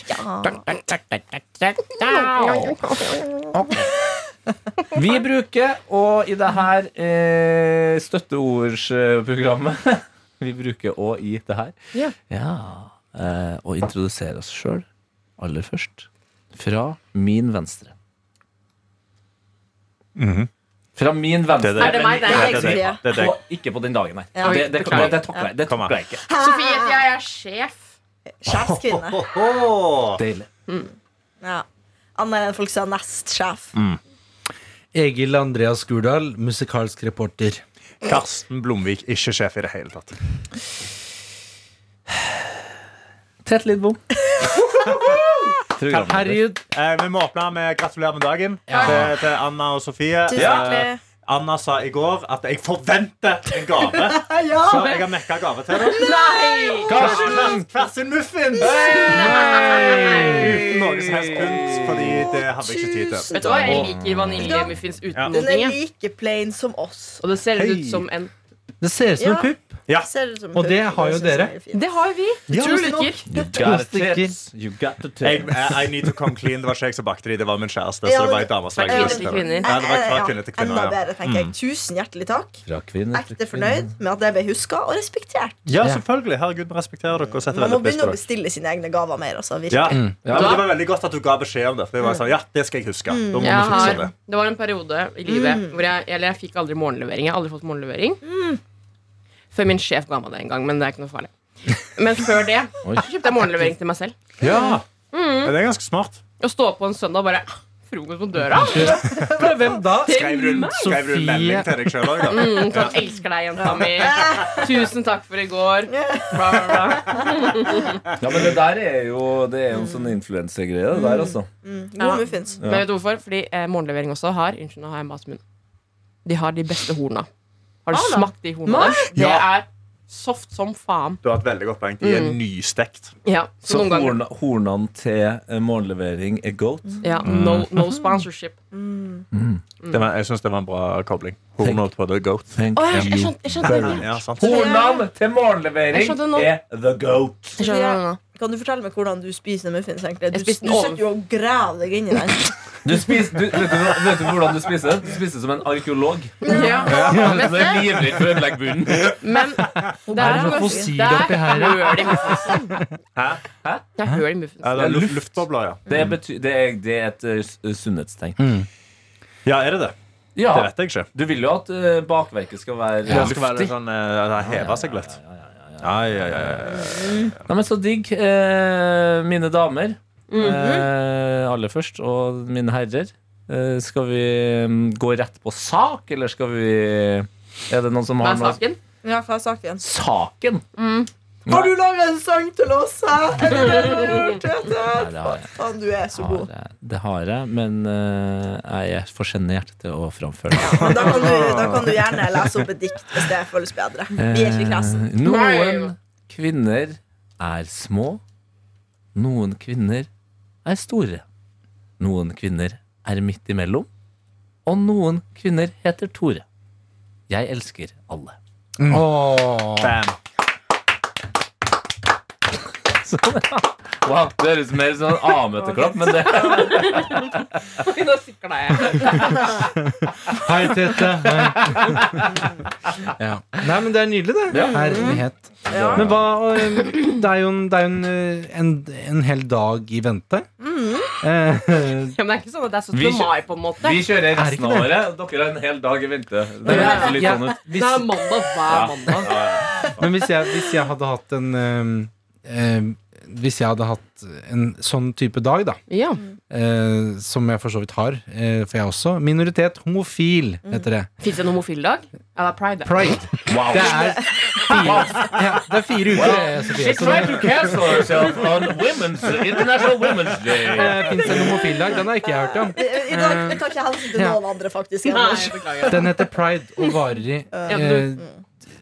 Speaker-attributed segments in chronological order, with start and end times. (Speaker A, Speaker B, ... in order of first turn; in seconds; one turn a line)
Speaker A: 0.1-0.6
Speaker B: 0.4-2.8
Speaker C: 2.1-3.2
Speaker B: 3.5-3.9
Speaker B: 4.9-11.8
Speaker B: 12.3-14.9
Speaker B: 15.4-17.9
Speaker D: 20.2-20.5
Speaker B: 20.9-26.2
Speaker D: 21.6-23.4
Speaker C: 21.8-22.8
Speaker A: 22.2-23.0
Speaker A: 24.4-25.5
Speaker C: 24.4-25.2
Speaker D: 25.6-25.9
Speaker A: 26.2-27.0
Speaker C: 26.4-27.9
Speaker A: 28.3-29.2
Speaker D: 28.9-30.2
Speaker B: 30.2-30.5
Speaker A: 31.4-33.7
Speaker D: 33.7-34.0
Speaker E: 34.9-37.6
Speaker D: 38.0-40.1
Speaker B: 43.5-44.0
Speaker B: 45.8-46.4
Speaker D: 45.9-56.1
Speaker E: 46.0-46.6
Speaker E: 48.7-49.1
Speaker C: 48.7-49.0
Speaker A: 50.3-51.0
Speaker B: 50.4-50.7
Speaker A: 53.8-55.1
Speaker A: 55.8-57.5
Speaker C: 55.9-56.9
Speaker D: 56.9-63.9
Speaker B: 56.9-57.6
Speaker A: 58.6-60.8
Speaker B: 59.0-62.3
Speaker C: 59.1-60.2
Speaker A: 62.0-64.8
Speaker C: 63.3-65.8
Speaker B: 64.0-64.6
Speaker A: 65.3-67.2
Speaker C: 67.2-68.3
Speaker D: 67.6-68.0
Speaker E: 68.8-69.8
Speaker A: 69.2-71.8
Speaker E: 70.5-71.5
Speaker C: 71.7-73.2
Speaker D: 72.5-73.0
Speaker A: 72.5-73.1
Speaker E: 73.3-74.3
Speaker B: 73.3-75.7
Speaker D: 75.2-81.5
Speaker A: 78.0-85.6
Speaker C: 78.8-79.7
Speaker B: 82.7-83.9
Speaker D: 85.7-88.2
Speaker A: 87.5-90.0
Speaker D: 89.7-94.1
Speaker B: 90.2-90.7
Speaker C: 90.3-90.7
Speaker A: 93.1-94.0
Speaker C: 93.4-98.2
Speaker A: 95.3-95.8
Speaker A: 98.2-98.6
Speaker C: 99.5-104.2
Speaker B: 102.8-103.7
Speaker A: 104.4-104.8
Speaker D: 104.4-104.8
Speaker C: 105.1-105.5
Speaker D: 105.4-106.2
Speaker C: 106.4-109.0
Speaker E: 108.6-111.9
Speaker D: 110.0-112.9
Speaker C: 110.1-110.8
Speaker C: 112.3-118.0
Speaker A: 114.0-114.5
Speaker A: 115.9-117.8
Speaker B: 118.2-121.5
Speaker A: 119.7-120.2
Speaker A: 120.9-122.6
Speaker C: 122.0-125.4
Speaker B: 122.6-122.9
Speaker C: 126.2-127.3
Speaker C: 127.9-131.2
Speaker A: 127.9-129.1
Speaker D: 129.1-129.5
Speaker D: 131.2-133.1
Speaker C: 132.0-132.4
Speaker C: 133.3-134.2
Speaker B: 133.7-137.7
Speaker A: 136.9-137.3
Speaker C: 137.0-138.5
Speaker A: 138.7-139.3
Speaker B: 139.3-139.6
Speaker D: 139.9-142.5
Speaker B: 142.5-147.6
Speaker C: 142.8-144.1
Speaker D: 143.6-144.7
Speaker A: 144.4-145.1
Speaker C: 145.9-146.5
Speaker C: 147.6-148.2
Speaker A: 147.6-152.8
Speaker C: 150.3-151.0
Speaker B: 152.8-159.2
Speaker A: 156.4-157.0
Speaker C: 156.4-157.9
Speaker D: 156.9-157.4
Speaker E: 157.1-157.5
Speaker C: 159.2-162.6
Speaker A: 160.1-161.3
Speaker E: 160.2-162.8
Speaker D: 163.2-163.4
Speaker B: 163.6-163.9
Speaker C: 164.0-164.9
Speaker D: 164.6-165.9
Speaker B: 164.8-165.3
Speaker B: 165.9-168.4
Speaker A: 165.9-166.1
Speaker E: 168.4-168.7
Speaker D: 169.5-169.9
Speaker B: 170.4-173.7
Speaker D: 170.5-171.1
Speaker E: 173.1-173.3
Speaker D: 173.1-175.2
Speaker B: 174.4-188.6
Speaker D: 175.8-177.3
Speaker A: 176.8-177.3
Speaker C: 180.3-180.6
Speaker A: 180.3-180.9
Speaker C: 188.2-188.8
Speaker A: 189.0-189.8
Speaker B: 189.8-190.6
Speaker C: 190.8-191.1
Speaker B: 191.5-191.7
Speaker A: 191.5-196.5
Speaker C: 193.7-194.4
Speaker B: 194.9-195.6
Speaker B: 196.1-201.7
Speaker A: 200.6-205.1
Speaker D: 201.2-201.8
Speaker B: 204.2-208.2
Speaker C: 205.2-205.9
Speaker B: 209.2-210.1
Speaker B: 210.7-211.2
Speaker B: 212.0-213.9
Speaker B: 214.7-216.4
Speaker B: 217.3-218.4
Speaker E: 218.8-219.9
Speaker D: 219.8-220.2
Speaker B: 223.0-227.5
Speaker C: 225.8-229.5
Speaker E: 229.9-232.2
Speaker B: 231.2-232.3
Speaker E: 233.2-240.5
Speaker B: 234.5-236.2
Speaker A: 234.6-236.2
Speaker A: 240.6-241.2
Speaker E: 241.2-242.1
Speaker C: 242.2-244.0
Speaker B: 242.9-247.8
Speaker E: 244.3-245.0
Speaker E: 246.7-249.2
Speaker C: 246.7-249.4
Speaker B: 248.7-250.1
Speaker E: 250.0-255.8
Speaker C: 255.9-256.2
Speaker E: 256.5-261.1
Speaker C: 261.2-263.2
Speaker E: 262.8-267.6
Speaker B: 263.5-264.2
Speaker A: 264.4-265.0
Speaker B: 264.7-265.3
Speaker B: 266.1-271.4
Speaker C: 266.6-267.5
Speaker E: 270.8-274.4
Speaker A: 272.7-276.2
Speaker C: 275.1-276.1
Speaker E: 275.9-278.3
Speaker A: 277.5-278.4
Speaker C: 277.7-278.1